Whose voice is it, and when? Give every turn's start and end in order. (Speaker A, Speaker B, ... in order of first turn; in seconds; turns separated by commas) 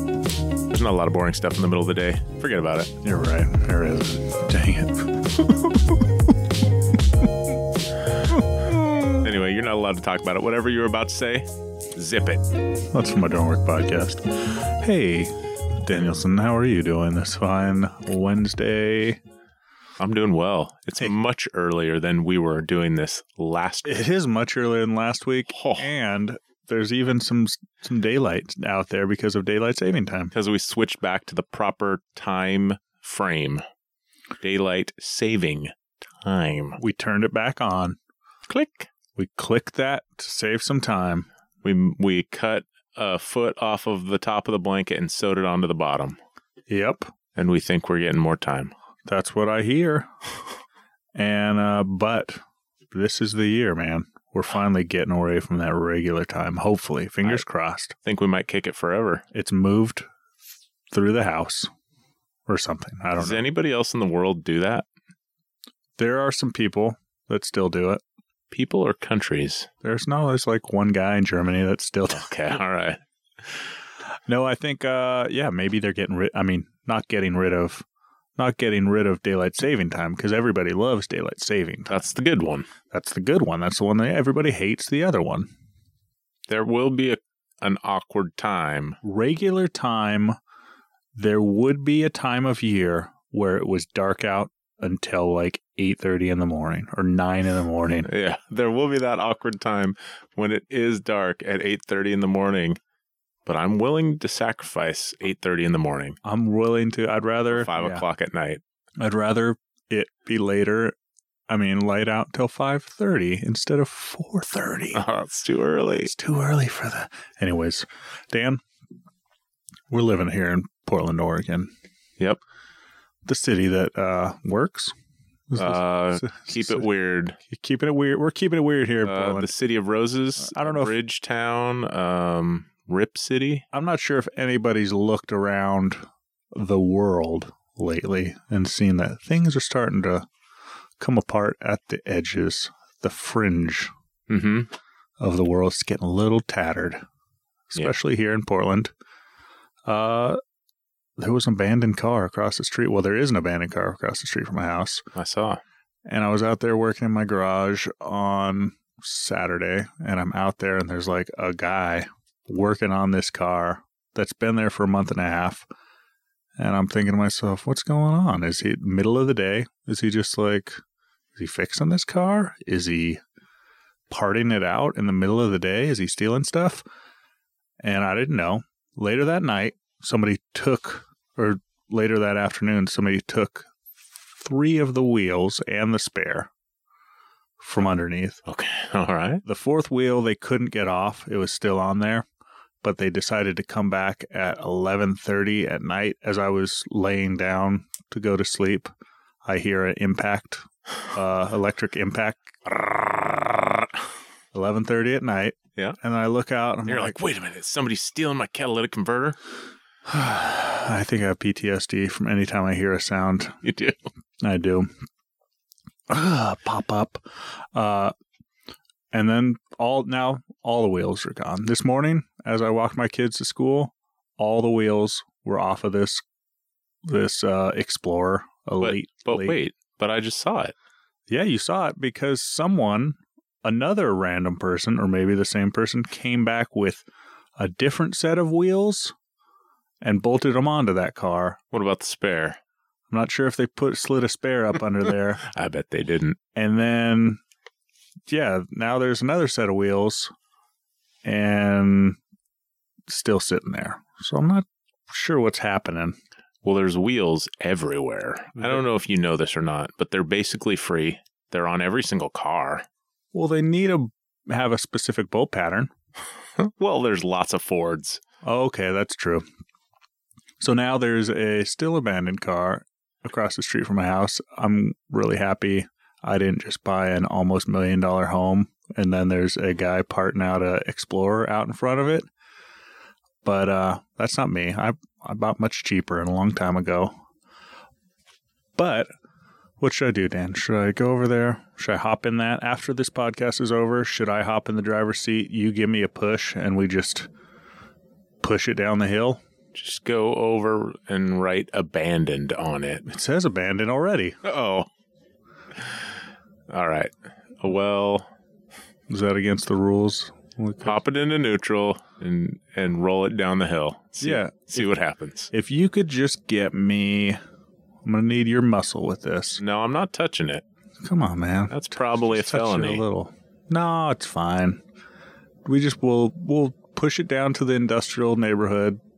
Speaker A: 0.7-2.9, Speaker B: 3.0-6.0, Speaker A: 9.2-12.4, Speaker B: 12.9-19.2, Speaker A: 20.0-24.0, Speaker B: 23.8-30.3, Speaker A: 25.5-25.9, Speaker A: 30.3-33.6, Speaker A: 34.4-36.8, Speaker B: 36.8-38.0, Speaker A: 38.5-38.9, Speaker B: 39.2-41.3, Speaker A: 41.6-46.2, Speaker B: 46.7-47.1, Speaker A: 47.4-48.7, Speaker B: 49.1-50.1, Speaker B: 51.1-58.0, Speaker A: 58.0-59.2, Speaker B: 59.3-60.1, Speaker B: 60.9-61.7, Speaker B: 62.5-63.4, Speaker A: 63.1-64.8, Speaker B: 66.0-68.0, Speaker A: 68.5-69.7, Speaker B: 69.8-72.3, Speaker A: 72.1-73.6, Speaker B: 74.3-77.8, Speaker B: 78.4-82.1, Speaker A: 81.9-82.7, Speaker B: 82.9-85.5, Speaker A: 86.5-89.0, Speaker B: 89.0-90.4, Speaker B: 91.2-98.1, Speaker A: 98.0-102.8, Speaker A: 103.5-106.2, Speaker B: 106.2-108.0, Speaker A: 107.5-108.6, Speaker B: 109.0-110.9, Speaker B: 111.5-115.0, Speaker A: 114.9-116.1, Speaker B: 116.0-118.6, Speaker B: 119.9-121.7, Speaker B: 123.2-124.9, Speaker B: 125.5-126.9, Speaker A: 125.6-127.4, Speaker B: 127.5-129.5, Speaker A: 129.1-133.7, Speaker B: 130.4-130.9, Speaker B: 133.7-136.0, Speaker B: 136.5-140.3, Speaker B: 141.0-143.9, Speaker A: 144.3-144.7, Speaker B: 145.2-147.0, Speaker B: 147.7-148.9, Speaker B: 149.9-150.4, Speaker B: 151.2-155.1, Speaker A: 155.2-155.6, Speaker B: 156.1-165.7, Speaker B: 166.6-170.8, Speaker B: 171.4-173.2, Speaker B: 174.1-176.8, Speaker B: 177.8-183.7, Speaker B: 184.4-186.5, Speaker B: 187.6-188.4, Speaker A: 188.5-189.4, Speaker B: 189.4-192.3, Speaker B: 192.8-198.9, Speaker B: 199.4-202.8, Speaker A: 202.8-203.4, Speaker B: 204.5-207.2, Speaker A: 206.9-209.4, Speaker B: 210.1-213.6, Speaker A: 213.6-214.0, Speaker B: 214.4-214.9, Speaker B: 216.1-218.1, Speaker B: 219.1-226.2, Speaker B: 227.0-229.6, Speaker A: 228.8-230.8, Speaker B: 231.3-237.1, Speaker B: 237.6-239.1, Speaker B: 240.0-241.6, Speaker A: 241.7-242.6, Speaker B: 243.1-245.4, Speaker A: 245.4-246.4, Speaker B: 246.5-247.4, Speaker B: 248.3-250.3, Speaker B: 251.2-252.2, Speaker B: 253.1-256.2, Speaker A: 256.6-262.9, Speaker B: 258.6-258.8, Speaker B: 263.3-265.9, Speaker A: 266.6-268.2, Speaker B: 268.4-269.4, Speaker B: 270.6-282.2, Speaker B: 283.4-287.1, Speaker B: 288.8-289.1, Speaker B: 289.8-297.3, Speaker B: 298.4-299.4, Speaker A: 299.7-303.1, Speaker B: 303.1-304.4, Speaker A: 304.4-304.9, Speaker A: 306.7-308.3, Speaker B: 309.1-311.0, Speaker A: 310.8-315.5, Speaker B: 314.2-314.9, Speaker B: 315.5-317.4, Speaker B: 318.0-319.6, Speaker A: 319.6-320.6, Speaker B: 321.0-324.8, Speaker A: 321.7-323.0, Speaker B: 325.6-329.0